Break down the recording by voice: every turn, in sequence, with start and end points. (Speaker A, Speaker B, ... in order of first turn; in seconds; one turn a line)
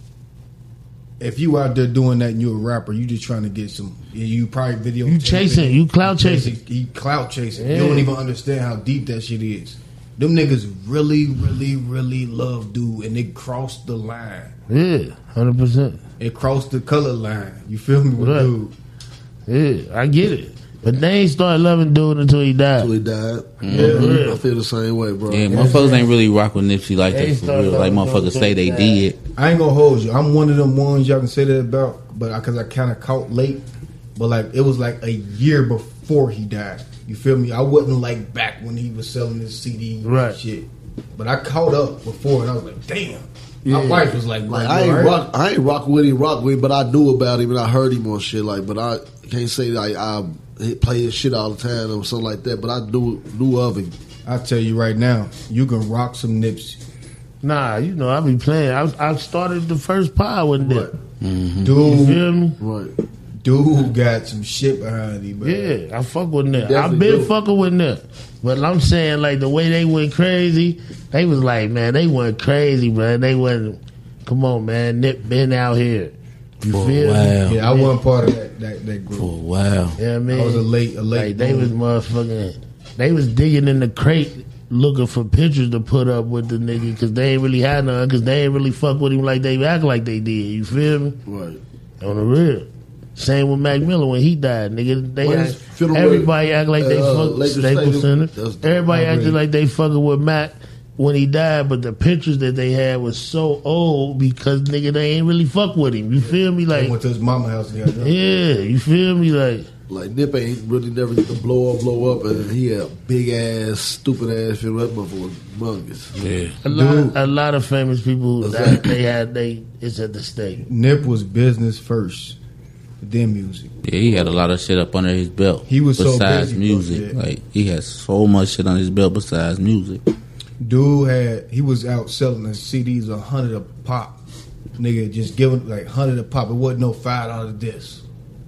Speaker A: 1.2-14.5
Speaker B: 5.0-6.5
Speaker B: 7.5-8.1
Speaker B: 14.7-16.0
Speaker A: 16.2-18.7
Speaker B: 18.2-18.5
Speaker B: 19.5-22.9
Speaker C: 22.8-25.8
Speaker D: 23.6-24.0
Speaker B: 23.6-24.4
Speaker A: 23.7-24.2
Speaker D: 25.3-29.2
Speaker B: 25.5-26.1
Speaker B: 27.1-29.1
Speaker A: 29.4-33.6
Speaker A: 34.1-45.2
Speaker B: 40.0-40.4
Speaker B: 43.6-44.1
Speaker C: 44.5-53.9
Speaker A: 54.2-56.8
Speaker B: 57.4-60.9
Speaker C: 60.6-60.9
Speaker D: 61.2-61.7
Speaker A: 61.6-62.2
Speaker B: 61.8-62.6
Speaker C: 62.6-62.9
Speaker A: 63.4-65.7
Speaker B: 65.4-77.9
Speaker C: 66.5-67.3
Speaker D: 76.7-77.6
Speaker A: 77.4-79.3
Speaker D: 79.1-80.0
Speaker B: 80.0-91.2
Speaker A: 80.3-81.7
Speaker C: 91.2-91.6
Speaker B: 92.0-106.9
Speaker C: 95.2-99.3
Speaker A: 106.7-108.2
Speaker B: 108.0-109.7
Speaker C: 109.9-116.1
Speaker D: 116.2-116.5
Speaker B: 116.6-120.7
Speaker A: 116.7-117.2
Speaker C: 118.4-118.9
Speaker A: 120.7-122.4
Speaker A: 123.0-124.3
Speaker D: 123.8-130.0
Speaker A: 125.7-127.1
Speaker A: 130.6-134.2
Speaker A: 134.8-138.0